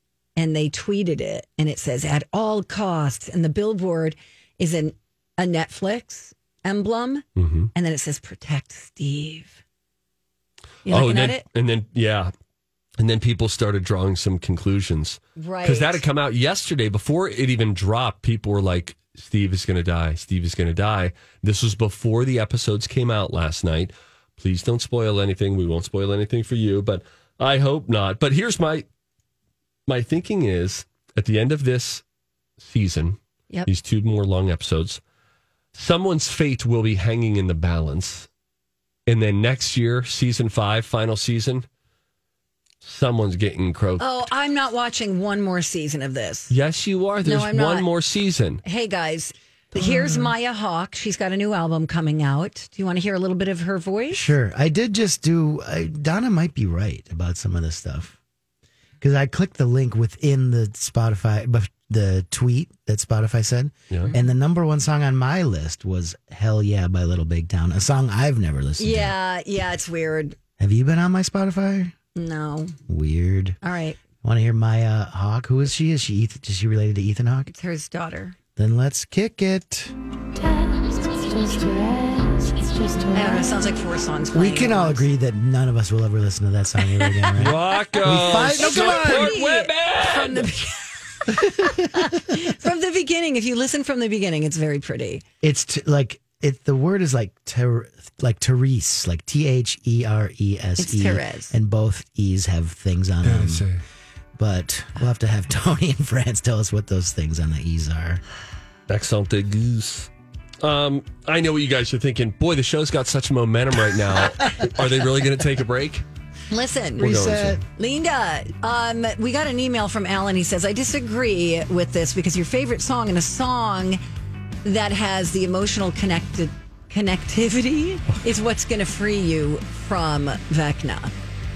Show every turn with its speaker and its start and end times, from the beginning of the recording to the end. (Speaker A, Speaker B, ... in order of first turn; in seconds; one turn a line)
Speaker A: 0.3-9.6
Speaker B: 7.4-7.7
Speaker A: 10.8-11.4
Speaker B: 10.8-12.3
Speaker B: 13.0-28.9
Speaker A: 15.4-16.0
Speaker B: 29.9-32.0
Speaker B: 32.6-35.0
Speaker B: 35.7-38.3
Speaker B: 39.1-41.6
Speaker B: 42.8-44.3
Speaker A: 44.0-46.5
Speaker B: 46.5-48.6
Speaker A: 47.2-47.9
Speaker A: 48.6-54.3
Speaker B: 49.8-50.3
Speaker C: 54.1-58.1
Speaker C: 59.0-69.2
Speaker A: 68.8-70.3
Speaker C: 70.6-71.9
Speaker A: 72.1-72.8
Speaker C: 72.9-73.6
Speaker A: 73.6-74.0
Speaker C: 74.2-77.5
Speaker A: 77.5-78.3
Speaker C: 78.6-79.9
Speaker A: 83.1-85.1
Speaker C: 84.3-89.3
Speaker A: 86.8-87.3
Speaker B: 87.3-90.5
Speaker A: 88.1-95.2
Speaker C: 91.3-92.2
Speaker C: 95.4-103.7
Speaker A: 100.8-101.5
Speaker B: 103.2-103.8
Speaker C: 104.3-108.2
Speaker B: 108.9-116.0
Speaker A: 116.5-117.2
Speaker C: 117.0-117.6
Speaker B: 117.0-117.6
Speaker A: 117.8-124.0
Speaker A: 124.6-131.1